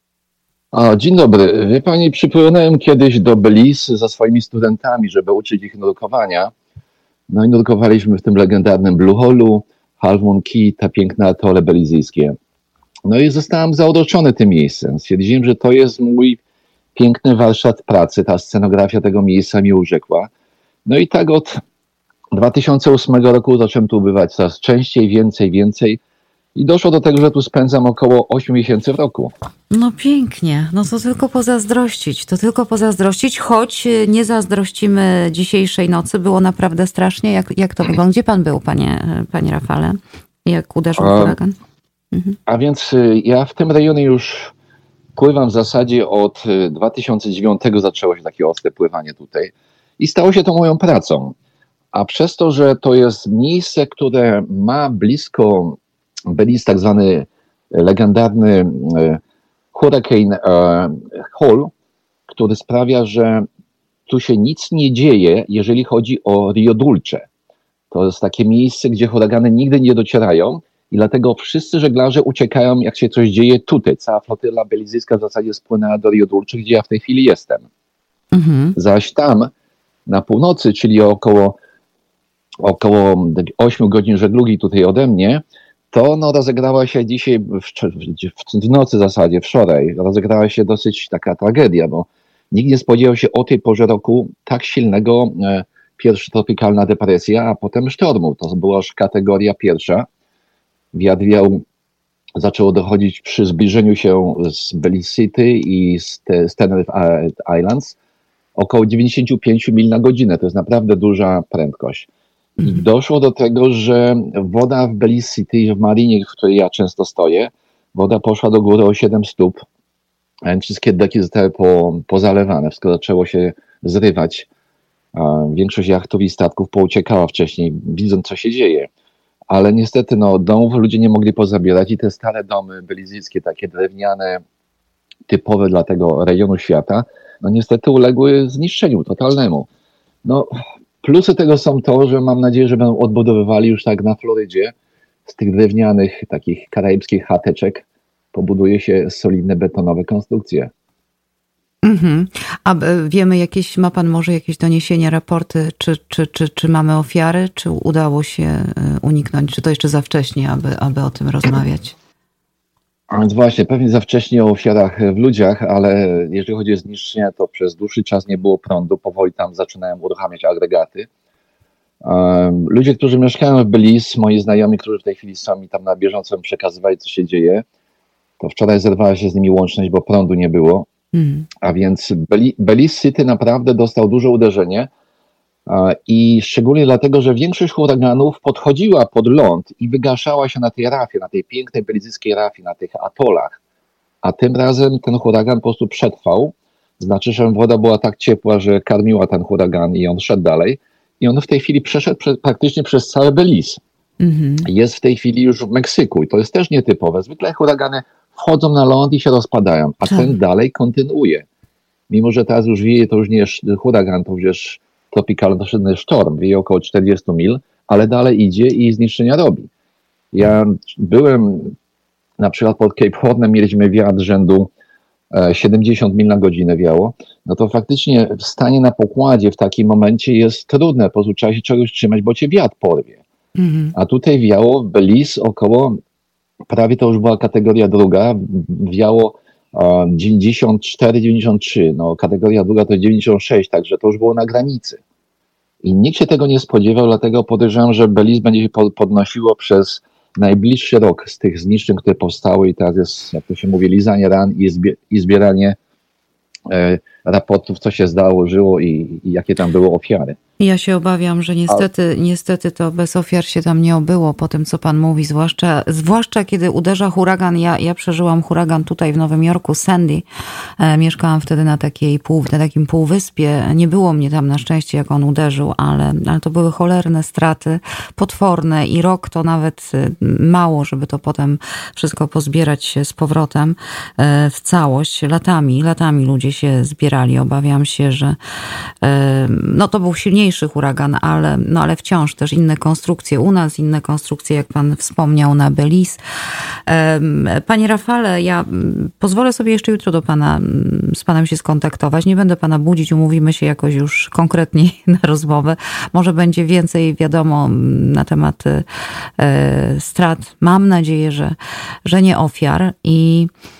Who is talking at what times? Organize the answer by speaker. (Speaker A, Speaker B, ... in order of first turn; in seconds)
Speaker A: 0.7-6.5, 7.3-12.3, 13.1-16.4, 16.9-20.3, 20.8-21.6, 22.3-26.0, 26.6-29.3, 41.0-41.4, 42.5-44.5, 45.2-51.3, 51.9-59.2, 59.7-61.7, 62.3-63.5, 64.1-67.2, 67.9-77.7, 78.8-79.5, 80.1-81.6, 82.6-100.0, 100.9-101.6, 102.4-108.0, 108.5-112.1, 112.6-119.6, 120.5-124.5, 125.1-128.9, 129.5-134.4, 135.3-139.7, 140.2-140.5, 141.0-144.7, 145.2-150.7, 163.1-171.1, 172.0-177.6, 178.4-180.9, 181.6-184.9, 185.7-193.6, 194.2-203.8, 204.6-211.4, 212.1-219.7, 220.3-221.7, 222.4-224.7, 225.3-233.2, 233.9-236.0, 236.7-245.0, 245.8-255.8, 256.7-260.4
Speaker B: 29.7-41.5, 78.3-78.8, 151.8-161.9, 181.1-181.5, 204.2-204.7, 233.6-233.9, 260.6-270.2, 270.8-288.4, 289.0-296.2, 296.9-308.9, 309.4-313.5